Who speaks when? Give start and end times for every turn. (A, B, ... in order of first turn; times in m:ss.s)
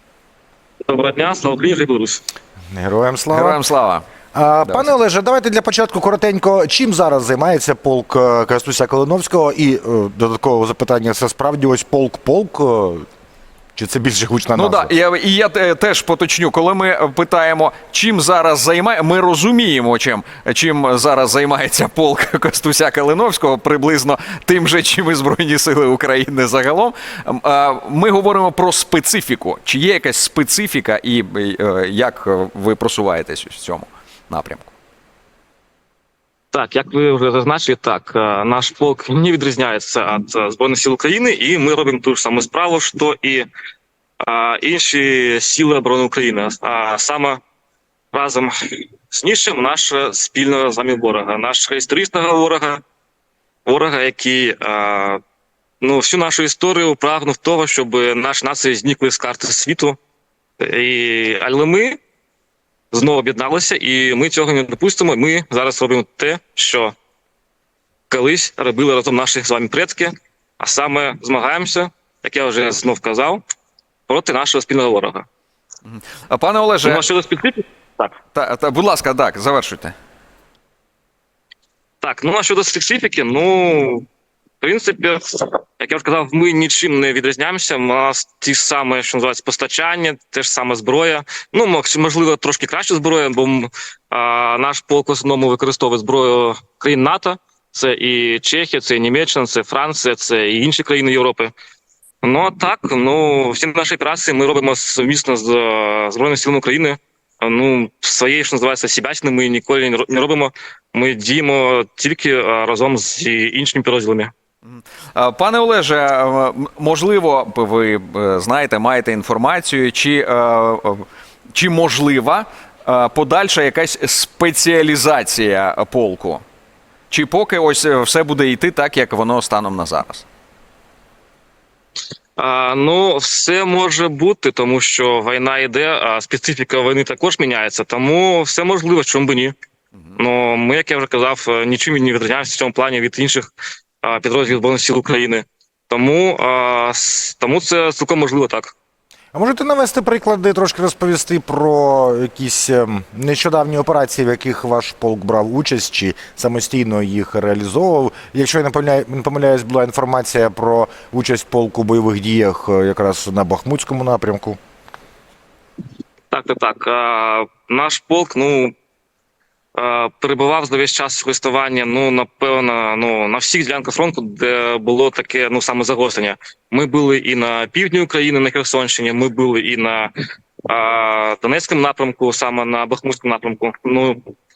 0:00.9-0:02.2 A
0:02.7-0:03.6 B
0:03.3-0:04.1 C
0:04.3-0:13.1 B
0:04.6-0:04.9 C
0:13.8-0:14.9 B
0:14.6-0:34.7 C
0:36.5-0:43.5 A
0:44.2-0:47.4 A
0:48.1-0:52.8 A
0:53.7-0:55.2 A
0:55.8-1:00.0 A
1:00.6-1:02.0 A
1:02.9-1:07.0 A
1:08.1-1:13.4 A
1:14.1-1:15.3 A
1:15.9-1:17.1 C
1:16.8-1:18.2 A
1:18.3-1:19.9 C
1:22.0-1:24.1 A
1:24.6-1:41.5 A
1:42.2-1:54.3 A
1:54.6-2:06.4 C
2:07.1-2:10.3 C
2:12.4-2:19.5 A
2:20.2-2:23.5 A
2:24.0-2:28.7 A
2:29.3-2:44.6 B
2:46.3-2:48.7 A
2:49.8-3:00.1 A
3:00.7-3:04.3 A